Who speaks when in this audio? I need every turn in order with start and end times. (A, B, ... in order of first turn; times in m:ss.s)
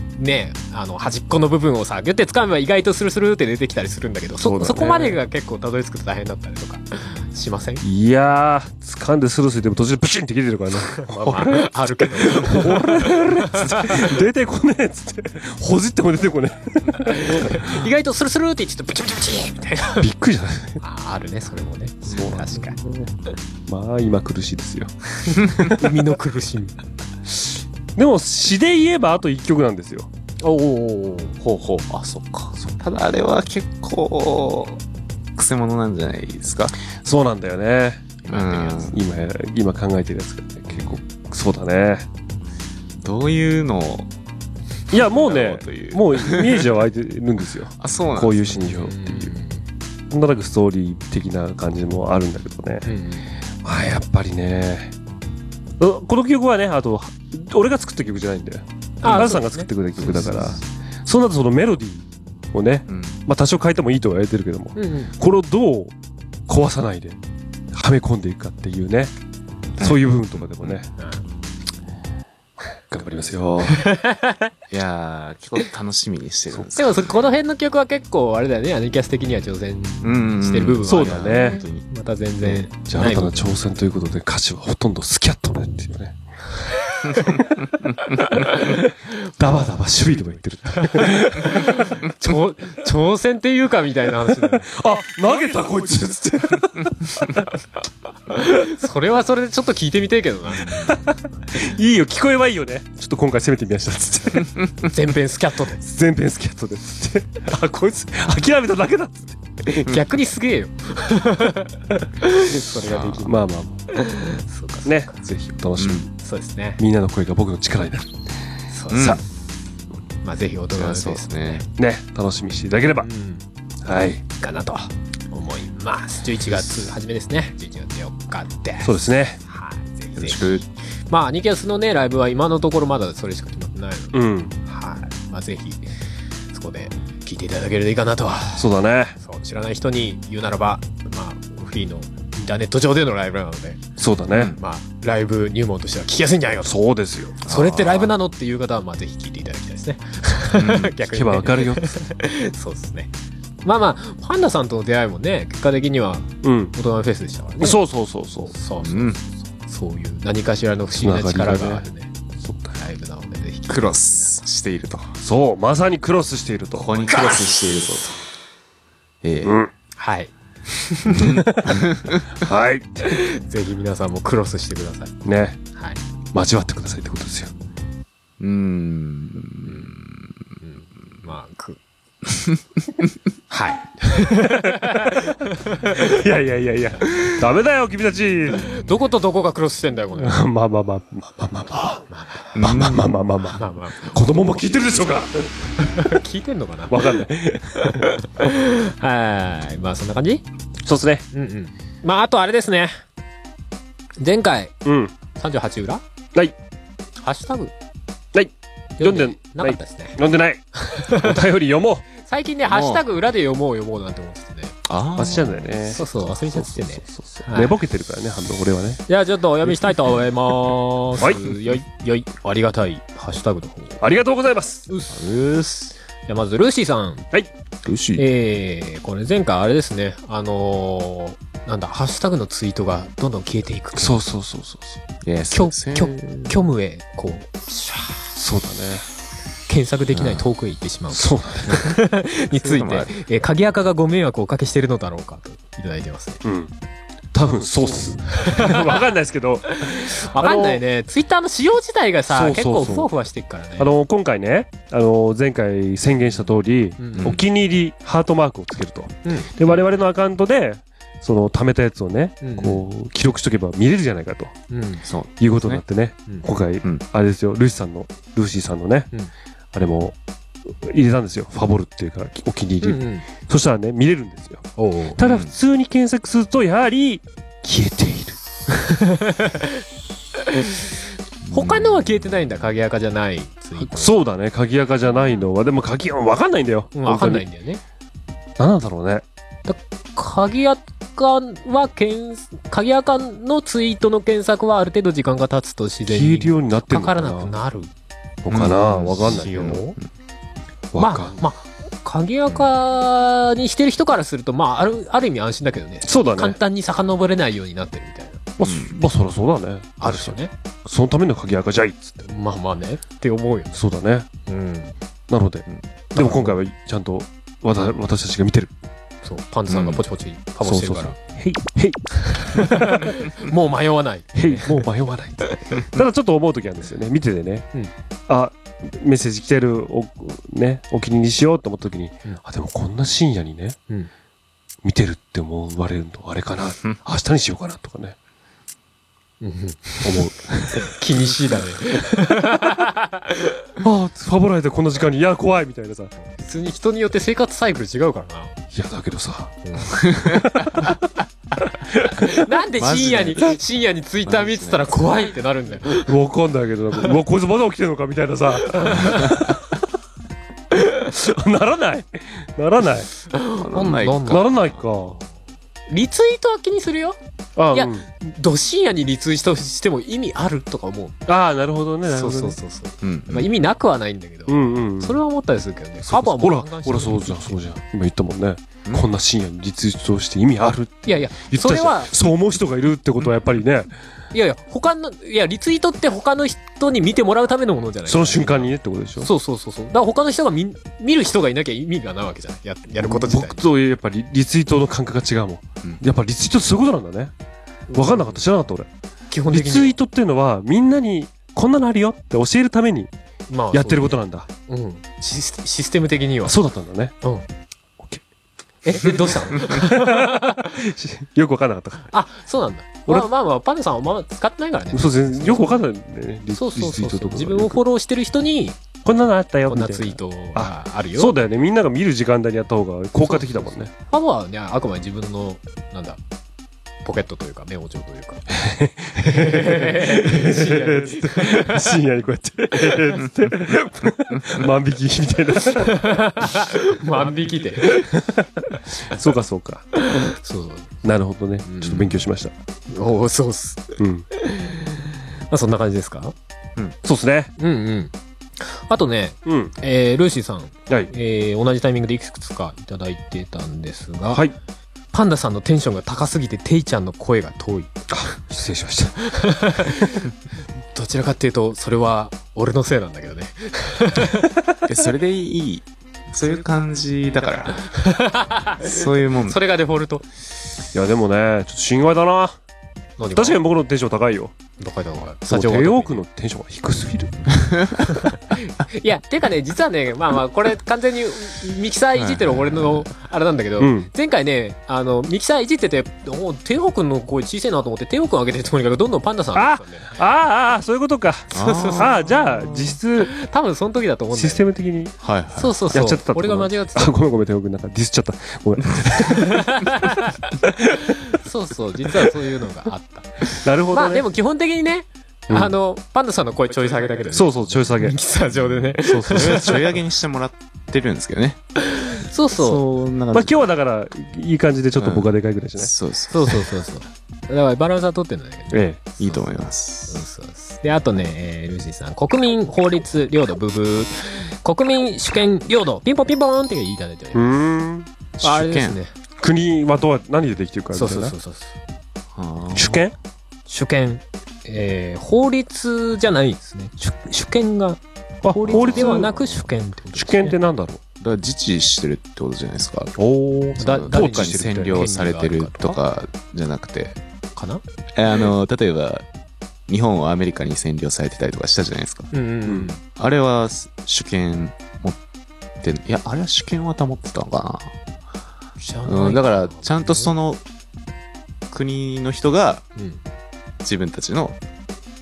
0:00.2-0:07.8 A
0:04.4-0:05.2 B
0:07.8-0:17.8 B
0:10.9-0:14.1 A
0:17.0-0:20.1 A
0:20.0-0:20.8 B
0:20.8-0:22.8 A
0:22.0-0:23.0 B
0:23.7-0:26.0 B
0:25.6-0:26.8 A
0:28.0-0:30.1 B
0:30.4-0:31.4 A
0:31.4-0:34.8 C
0:35.4-0:36.8 C
0:36.9-0:38.0 B
0:38.2-0:38.9 A
0:38.3-0:39.0 C
0:38.9-0:42.1 B
0:43.0-0:44.1 C
0:44.9-0:46.7 C
0:44.9-0:49.3 B
0:47.8-0:48.7 C
0:48.5-0:49.6 A
0:50.1-0:52.8 B
0:52.8-0:53.3 A
0:53.6-0:54.9 B
0:55.8-1:05.9 B
0:59.0-0:59.7 A
1:00.0-1:00.6 C
1:02.9-1:03.2 C
1:04.8-1:05.1 A
1:06.5-1:07.2 B
1:07.7-1:09.1 B
1:09.8-1:10.9 B
1:09.8-1:10.8 C
1:11.0-1:11.2 A
1:12.9-1:13.9 B
1:13.6-1:14.5 A
1:14.7-1:17.1 C
1:16.8-1:23.5 A
1:20.0-1:21.8 C
1:20.8-1:21.6 B
1:22.9-1:26.2 B
1:28.3-1:28.7 A
1:28.6-1:31.9 B
1:30.7-1:34.7 A
1:34.6-1:37.5 B
1:38.3-1:40.9 A
1:40.8-1:44.5 B
1:44.8-1:45.8 A
1:45.8-1:49.4 B
1:49.6-1:55.1 A
1:52.8-1:53.3 C
1:53.2-1:53.9 B
1:54.8-1:56.1 B
1:55.8-1:56.0 C
1:56.2-1:56.8 A
1:56.8-1:58.2 B
1:58.7-1:59.2 A
1:58.9-1:59.2 C
1:58.9-1:59.2 B
2:00.2-2:01.6 A
2:00.7-2:01.6 C
2:01.8-2:03.1 B
2:02.9-2:03.4 A
2:03.8-2:04.2 B
2:04.4-2:15.9 A
2:08.8-2:09.4 B
2:10.2-2:10.6 C
2:14.1-2:14.5 B
2:16.5-2:23.9 A
2:18.6-2:19.2 B
2:24.0-2:24.6 B
2:24.3-2:24.6 C
2:24.6-2:26.8 A
2:26.6-2:27.4 B
2:27.4-2:28.1 C
2:27.4-2:33.1 A
2:30.5-2:30.9 C
2:31.0-2:32.0 B
2:33.6-2:37.8 A
2:36.4-2:36.7 B
2:37.6-2:38.5 B
2:38.5-2:42.1 A
2:38.8-2:39.2 C
2:41.0-2:41.8 B
2:42.4-2:42.7 B
2:42.7-2:44.4 A
2:43.7-2:45.1 C
2:45.2-2:47.0 B
2:46.7-2:48.2 C
2:47.1-2:47.4 A
2:49.2-2:49.6 C
2:49.4-2:49.7 B
2:50.0-2:51.3 A
2:51.1-2:52.2 C
2:51.2-2:53.1 B
2:53.0-2:55.1 A
2:55.2-2:55.6 B
2:56.3-2:57.5 B
2:58.4-3:00.3 C
2:59.6-2:59.9 A
3:00.6-3:01.8 A
3:03.5-3:06.1 A
3:04.6-3:05.2 B
3:05.9-3:08.7 B
3:08.5-3:10.4 A
3:10.2-3:16.2 B
3:12.1-3:12.5 A
3:12.5-3:13.1 C
3:13.4-3:14.1 A
3:15.8-3:17.2 A
3:16.9-3:18.1 B
3:17.8-3:20.4 A
3:20.8-3:21.2 B
3:21.3-3:23.0 A
3:24.2-3:24.7 A
3:24.8-3:25.1 B
3:25.3-3:26.0 A
3:27.2-3:27.7 A
3:28.3-3:32.0 B
3:29.0-3:30.2 A
3:30.8-3:31.4 A
3:32.2-3:34.7 A
3:32.7-3:33.0 C
3:34.8-3:36.0 C
3:35.2-3:39.0 B
3:35.9-3:37.8 A
3:39.1-3:44.0 A
3:39.6-3:40.1 B
3:44.0-3:44.8 B
3:44.9-3:45.1 A
3:45.1-3:45.9 C
3:46.2-3:47.2 A
3:47.8-3:48.2 C
3:48.2-3:54.2 A
3:53.9-3:55.0 B
3:55.2-3:56.6 C
3:55.5-3:58.4 A
3:58.4-3:59.0 B
3:59.7-4:06.4 A
4:00.1-4:00.4 C
4:01.1-4:01.8 B
4:02.5-4:03.1 C
4:06.4-4:06.7 B
4:07.3-4:10.8 B
4:08.4-4:09.0 A
4:09.7-4:13.9 A
4:12.3-4:13.1 B
4:13.8-4:24.5 B
4:17.0-4:17.4 A
4:17.1-4:17.4 C
4:19.2-4:19.5 A
4:22.4-4:22.8 A
4:24.7-4:25.0 A
4:25.0-4:25.8 C
4:25.4-4:29.1 B
4:29.7-4:30.2 B
4:30.7-4:34.6 B
4:32.8-4:33.2 A
4:34.8-4:35.2 A
4:35.2-4:39.0 B
4:35.2-4:35.5 C
4:39.0-4:39.8 A
4:40.4-4:44.2 A
4:41.4-4:42.3 C
4:43.8-4:47.4 B
4:45.1-4:45.4 A
4:46.9-4:47.8 A
4:48.6-4:49.2 B
4:49.6-4:57.9 A
4:56.1-4:57.5 B
4:58.4-4:59.8 B
4:58.5-5:00.0 C
4:59.2-5:00.0 A
5:00.9-5:01.3 B
5:01.0-5:08.4 A
5:06.0-5:06.6 B
5:08.6-5:12.2 B
5:08.6-5:08.9 C
5:10.0-5:10.5 A
5:12.2-5:13.8 A
5:13.7-5:14.3 B
5:14.5-5:14.9 A
5:15.3-5:18.7 B
5:16.1-5:16.6 A
5:19.2-5:21.2 A
5:19.7-5:20.0 C
5:20.6-5:23.1 B
5:22.2-5:24.8 A
5:24.3-5:27.7 B
5:25.5-5:25.8 A
5:28.3-5:33.8 B
5:34.8-5:38.2 B
5:39.4-5:43.6 A
5:40.0-5:40.9 B
5:43.8-5:46.1 B
5:46.2-5:48.6 A
5:48.7-5:50.9 B
5:49.6-5:50.0 A
5:50.1-5:50.8 C
5:51.9-5:52.3 B
5:52.0-5:56.1 A
5:52.8-5:53.6 C
5:54.2-5:55.2 C
5:56.1-5:59.7 B
5:58.7-5:59.2 A
6:00.8-6:03.1 B
6:03.3-6:04.4 A
6:03.4-6:05.1 C
6:04.3-6:05.2 B
6:05.9-6:07.2 A
6:07.6-6:08.0 B
6:07.7-6:11.2 A
6:11.3-6:12.6 B
6:12.0-6:17.5 A
6:13.0-6:13.5 C
6:14.5-6:15.2 B
6:16.0-6:23.9 B
6:21.0-6:22.3 A
6:24.3-6:33.6 A
6:28.0-6:29.3 B
6:33.0-6:37.3 B
6:37.9-6:38.4 A
6:37.9-6:38.9 B
6:39.3-6:40.0 A
6:39.5-6:43.1 B
6:43.5-6:46.6 A
6:43.7-6:44.5 B
6:46.4-6:47.1 B
6:48.8-6:50.8 A
6:48.9-6:52.1 B
6:52.1-6:55.8 A
6:54.9-6:57.8 B
6:56.5-6:58.8 A
6:59.0-7:03.9 B
6:59.7-7:01.3 A
7:03.2-7:06.2 A
7:07.0-7:08.5 A
7:08.5-7:16.7 B
7:09.2-7:12.0 A
7:15.8-7:18.1 A
7:17.8-7:20.3 B
7:19.9-7:21.0 A
7:21.0-7:22.5 B
7:21.6-7:22.1 A
7:22.9-7:26.3 A
7:24.0-7:24.2 B
7:27.0-7:27.5 B
7:27.6-7:34.5 A
7:29.4-7:29.7 B
7:35.1-7:38.0 A
7:38.1-7:39.2 B
7:39.2-7:40.3 A
7:40.9-7:44.5 A
7:44.8-7:47.9 C
7:47.6-7:50.2 A
7:48.8-7:49.6 C
7:50.9-7:52.6 B
7:53.2-7:53.6 A
7:53.3-7:54.5 B
7:54.8-7:56.2 A
7:55.5-7:57.4 B
7:58.0-8:10.1 A
8:02.2-8:03.0 C
8:03.8-8:04.1 B
8:09.5-8:13.3 B
8:11.5-8:14.7 A
8:11.5-8:12.2 C
8:14.3-8:15.1 B
8:15.2-8:15.9 C
8:15.6-8:17.1 A
8:15.9-8:19.8 B
8:19.1-8:20.4 A
8:20.6-8:21.1 B
8:21.0-8:29.9 A
8:23.6-8:24.2 B
8:25.5-8:25.7 B
8:27.3-8:28.2 B
8:29.1-8:29.6 B
8:29.1-8:31.6 C
8:31.9-8:32.8 A
8:32.6-8:33.7 C
8:33.3-8:35.9 B
8:35.0-8:36.6 C
8:36.3-8:47.6 A
8:38.7-8:39.0 B
8:39.2-8:40.3 C
8:47.3-8:48.1 B
8:48.4-8:49.0 C
8:48.4-8:49.1 A
8:49.4-8:51.3 B
8:50.9-8:51.7 A
8:52.3-8:53.0 C
8:52.7-8:53.1 B
8:53.7-9:00.6 A
8:58.4-8:59.6 B
8:58.7-8:59.3 C
9:00.1-9:01.0 B
9:01.2-9:03.2 C
9:03.2-9:05.1 B
9:03.8-9:07.2 C
9:03.8-9:06.0 A
9:07.6-9:07.8 A
9:08.2-9:09.2 C
9:09.9-9:12.3 C
9:12.3-9:13.0 A
9:13.1-9:15.2 C
9:15.8-9:17.9 C
9:18.8-9:20.3 A
9:19.0-9:20.6 C
9:21.7-9:22.8 C
9:23.0-9:23.2 A
9:23.8-9:24.6 C